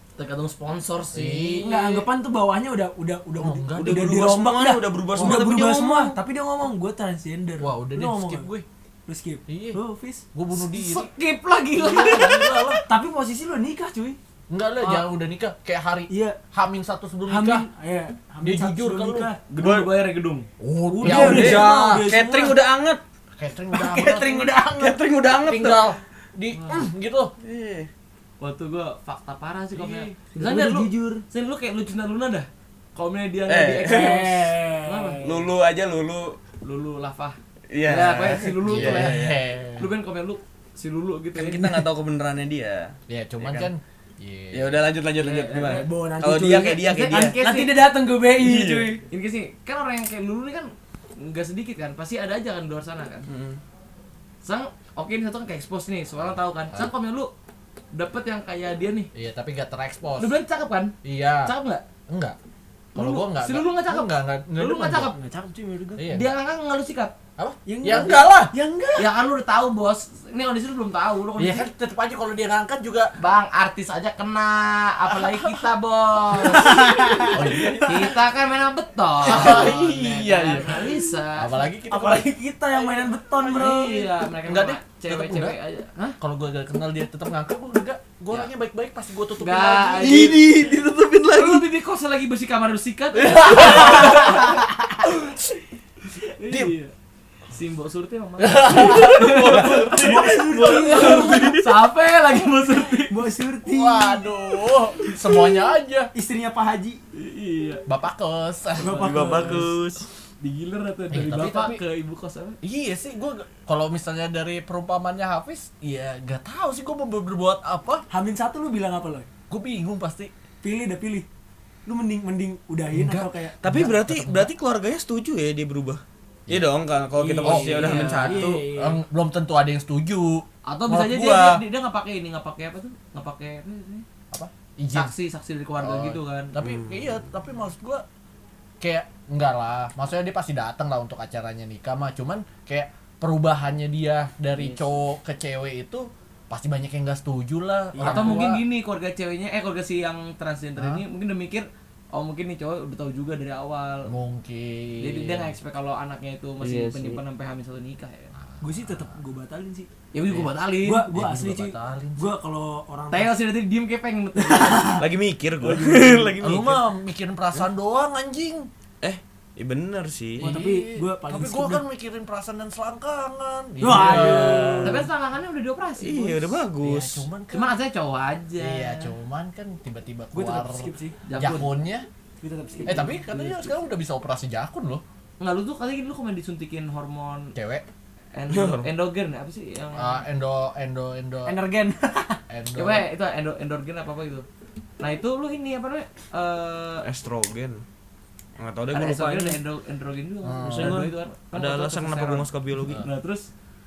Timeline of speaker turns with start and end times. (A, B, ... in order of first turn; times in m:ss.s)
0:00.2-0:01.8 A
0:01.1-0:01.7 B
0:01.6-0:08.5 C
0:03.4-0:04.2 B
0:03.8-0:06.2 D
0:07.6-0:08.7 B
0:09.1-0:10.3 C
0:09.5-0:09.8 B
0:10.3-0:11.1 B
0:10.5-0:12.8 A
0:11.8-0:12.8 B
0:12.9-0:14.2 C
0:14.5-0:17.7 B
0:16.1-0:16.4 C
0:17.3-0:19.4 C
0:18.4-0:19.3 B
0:19.5-0:20.5 A
0:19.6-0:19.9 D
0:20.6-0:22.1 B
0:20.9-0:22.6 C
0:21.0-0:23.0 D
0:21.2-0:21.6 A
0:23.4-0:24.5 B
0:23.7-0:25.0 C
0:24.8-0:25.8 D
0:25.4-0:27.3 B
0:26.5-0:26.9 A
0:27.4-0:27.9 D
0:28.4-0:35.2 A
0:29.8-0:30.1 D
0:30.3-0:31.2 C
0:33.5-0:34.4 D
0:33.8-0:35.5 C
0:35.2-0:36.4 D
0:36.6-0:39.3 A
0:37.7-0:39.4 D
0:38.6-0:39.9 B
0:39.8-0:41.8 A
0:41.4-0:43.7 D
0:43.1-0:44.9 B
0:44.5-0:47.4 D
0:45.2-0:45.9 A
0:45.6-0:49.0 C
0:46.8-0:47.8 A
0:48.3-0:49.0 D
0:49.1-0:53.3 A
0:53.3-0:53.6 D
0:54.4-0:57.3 A
0:57.9-0:59.1 A
0:59.1-1:00.3 B
1:00.2-1:00.9 A
1:01.0-1:01.5 B
1:01.4-1:01.8 A
1:02.1-1:02.4 B
1:03.0-1:05.1 B
1:03.0-1:05.1 A
1:05.1-1:06.1 C
1:06.0-1:06.3 B
1:06.1-1:07.1 A
1:07.4-1:08.5 B
1:07.7-1:09.1 C
1:09.0-1:11.7 A
1:11.4-1:13.1 B
1:13.2-1:21.7 A
1:15.1-1:15.5 B
1:16.5-1:17.9 C
1:17.3-1:18.2 B
1:19.2-1:22.3 B
1:21.9-1:24.1 C
1:23.4-1:26.2 A
1:24.5-1:25.6 B
1:26.2-1:30.4 B
1:29.4-1:30.5 A
1:30.0-1:31.7 D
1:31.3-1:35.1 A
1:33.2-1:34.5 B
1:36.4-1:36.9 A
1:36.5-1:36.7 B
1:37.5-1:40.0 A
1:38.4-1:41.5 B
1:38.8-1:41.7 D
1:39.8-1:41.6 C
1:40.7-1:43.3 A
1:43.0-1:44.3 C
1:43.7-1:46.1 B
1:46.2-1:47.0 C
1:47.1-1:47.8 A
1:47.9-1:49.0 B
1:48.8-1:49.8 C
1:48.8-1:49.7 A
1:49.0-1:50.0 D
1:50.4-1:52.6 A
1:51.1-1:51.8 B
1:52.6-1:58.1 B
1:58.1-1:59.3 C
1:59.5-2:00.3 B
2:00.6-2:01.3 C
2:01.9-2:03.6 C
2:02.9-2:04.5 B
2:03.6-2:08.6 D
2:07.2-2:09.0 C
2:07.4-2:08.5 A
2:07.4-2:11.6 B
2:10.7-2:14.0 A
2:14.3-2:15.1 B
2:14.9-2:16.5 A
2:15.8-2:18.0 B
2:16.6-2:17.1 D
2:18.8-2:28.6 B
2:24.6-2:24.9 A
2:28.0-2:28.5 C
2:28.0-2:34.1 A
2:30.8-2:31.0 B
2:34.1-2:35.6 B
2:35.0-2:38.3 A
2:36.6-2:37.2 D
2:38.4-2:39.2 B
2:38.6-2:39.9 C
2:40.1-2:41.1 A
2:40.3-2:42.3 B
2:40.8-2:43.4 C
2:43.1-2:45.0 A
2:44.5-2:45.0 C
2:44.9-2:46.8 D
2:45.6-2:46.3 A
2:45.7-2:46.1 C
2:46.4-2:48.7 B
2:49.0-2:50.5 D
2:50.4-2:55.1 B
2:50.4-2:51.8 C
2:53.8-2:55.1 C
2:54.2-2:56.6 A
2:56.0-2:57.2 D
2:56.8-2:57.8 B
2:57.5-2:59.1 A
2:58.6-3:02.1 B
3:00.3-3:01.2 C
3:01.3-3:01.7 A
3:02.4-3:03.7 C
3:02.9-3:05.0 B
3:05.4-3:07.5 A
3:07.6-3:07.8 B
3:08.4-3:10.2 A
3:08.5-3:08.9 D
3:10.0-3:11.6 B
3:11.5-3:12.4 C
3:12.5-3:13.1 B
3:12.8-3:14.5 A
3:15.0-3:17.0 A
3:17.0-3:17.8 D
3:18.6-3:19.6 D
3:18.9-3:23.5 A
3:20.4-3:21.1 B
3:20.6-3:23.0 D